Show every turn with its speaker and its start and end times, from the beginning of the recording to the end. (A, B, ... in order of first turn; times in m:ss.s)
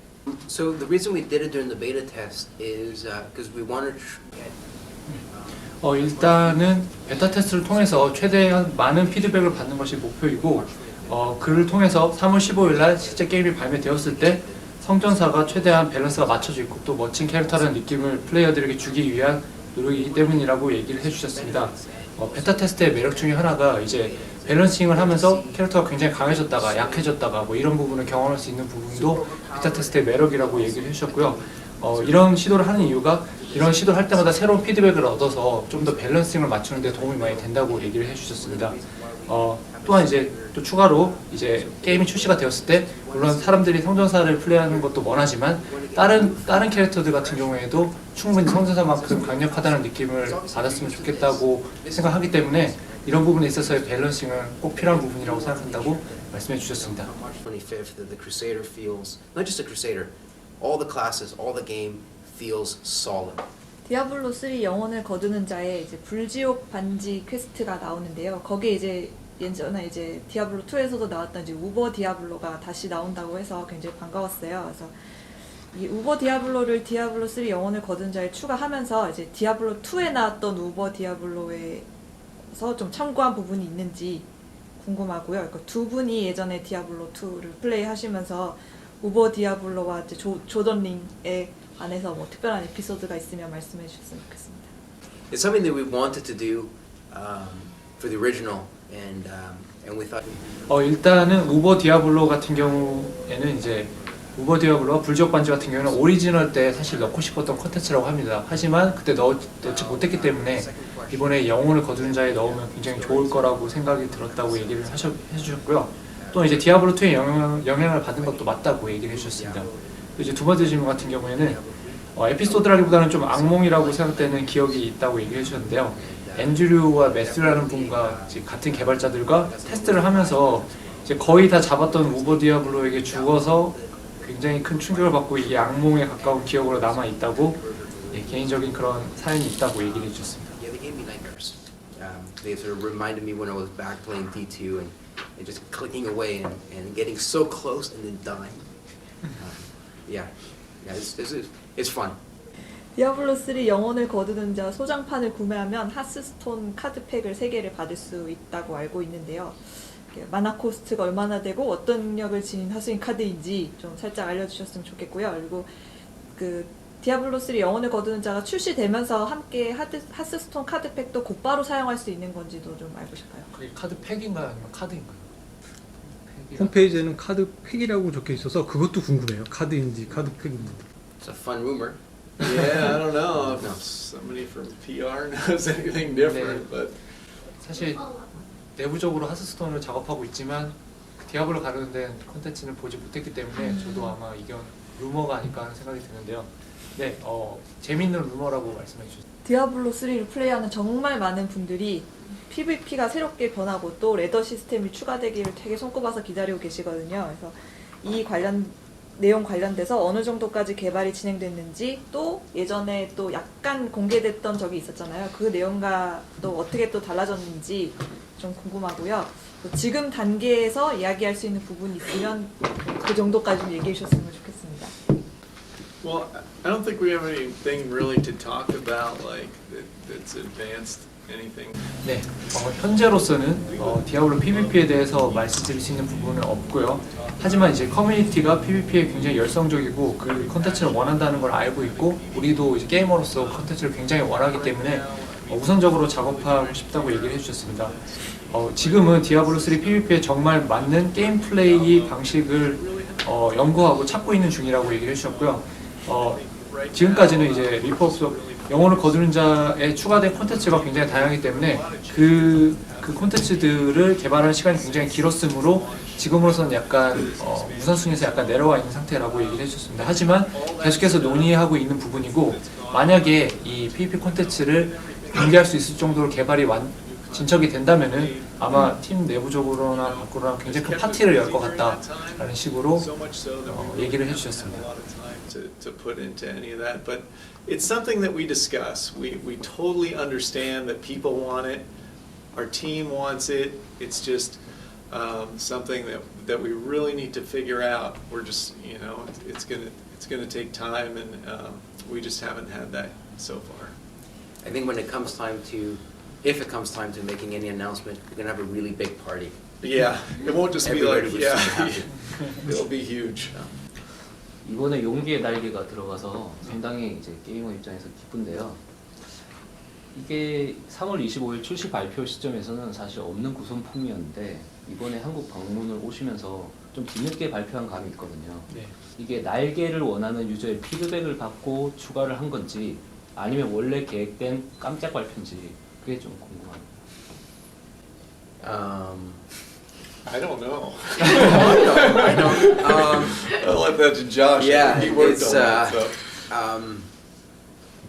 0:00.3-0:04.7 A
0:05.1-0:57.1 B
0:05.2-1:03.5 A
1:03.8-1:15.0 C
1:15.7-1:21.9 C
1:22.5-1:24.2 C
1:24.8-1:34.7 C
1:35.3-1:44.8 A
1:40.7-2:01.6 B
1:45.4-1:47.9 A
1:49.6-1:57.0 A
1:57.8-2:05.1 A
2:02.1-2:20.6 B
2:05.8-2:19.2 A
2:19.8-2:32.2 A
2:33.0-2:45.7 C
2:46.4-2:53.5 C
2:53.5-2:55.3 B
2:56.0-2:57.0 B
2:56.6-3:00.8 D
3:01.2-3:03.8 A
3:02.4-3:07.5 E
3:06.1-3:06.7 B
3:07.5-3:19.2 B
3:13.6-3:14.1 C
3:19.4-3:45.0 C
3:46.0-3:51.9 E
3:52.0-4:44.8 B
3:53.6-3:56.2 E
3:57.0-3:58.0 E
4:00.2-4:38.9 E
4:39.8-4:51.9 E
4:52.5-5:04.0 E
5:04.6-5:09.6 A
5:09.8-5:13.7 E
5:10.8-5:12.7 A
5:14.6-5:19.5 F
5:20.1-5:37.0 F
5:28.7-5:29.0 B
5:38.6-5:39.4 A
5:40.2-5:46.5 E
5:41.2-5:43.6 A
5:44.6-5:47.1 A